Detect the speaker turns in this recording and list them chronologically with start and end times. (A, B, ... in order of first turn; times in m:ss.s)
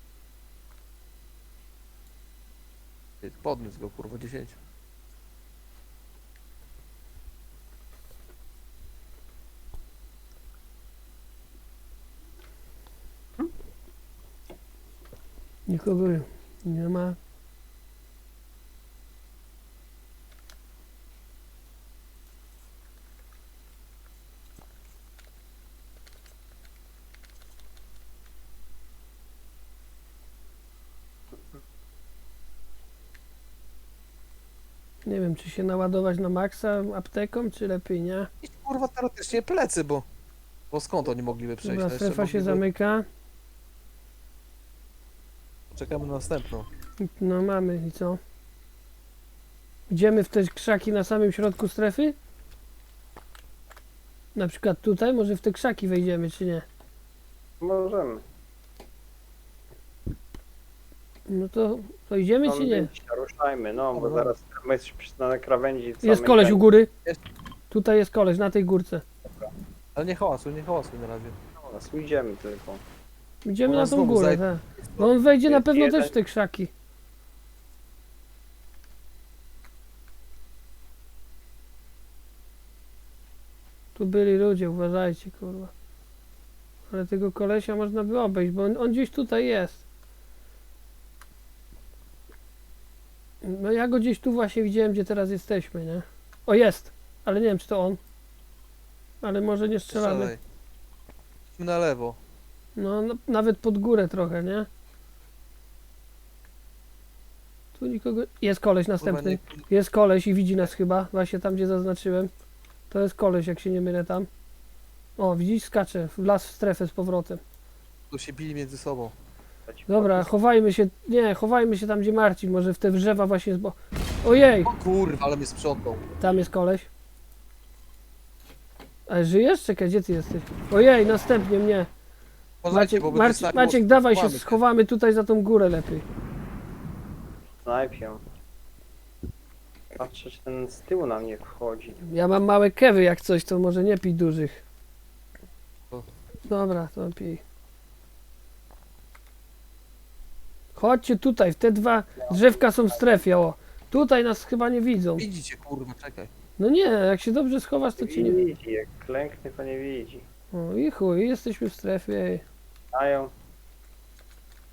0:03.2-0:04.6 A
0:15.7-0:17.2 B
0:35.0-0:38.3 B
0:38.4-0:40.1 A
0:40.7-0:42.6 A
0:41.6-0:43.1 B
0:45.7-0:46.7 A
0:47.0-0:48.2 B
0:49.9-0:52.2 B
0:54.4-0:56.6 B
0:57.6-0:58.2 C
1:01.3-1:02.9 B
1:02.4-1:06.6 C
1:03.9-1:04.3 A
1:06.0-1:06.9 B
1:07.7-1:09.0 B
1:10.0-1:11.4 A
1:11.6-1:12.8 C
1:13.4-1:16.7 B
1:13.7-1:15.1 A
1:15.5-1:16.1 C
1:24.0-1:25.7 B
1:26.9-1:29.8 B
1:33.4-1:38.0 B
1:39.2-1:40.3 B
1:39.9-1:40.4 A
1:41.6-1:42.2 A
1:42.8-1:44.7 B
1:47.8-1:52.3 B
1:49.0-1:49.6 A
1:52.9-1:54.3 B
1:55.2-1:57.4 B
1:58.1-1:59.2 A
1:59.7-2:00.3 C
1:59.9-2:04.7 B
2:04.6-2:06.0 A
2:06.2-2:06.9 B
2:09.1-2:11.9 B
2:12.6-2:14.6 A
2:12.7-2:16.0 B
2:17.6-2:18.2 C
2:20.0-2:22.0 C
2:22.0-2:24.6 B
2:26.5-2:27.4 B
2:30.8-2:35.3 B
2:32.2-2:33.0 C
2:35.2-2:36.3 A
2:36.6-2:38.4 B
2:38.0-2:40.2 C
2:40.5-2:42.4 B
2:42.9-2:43.3 C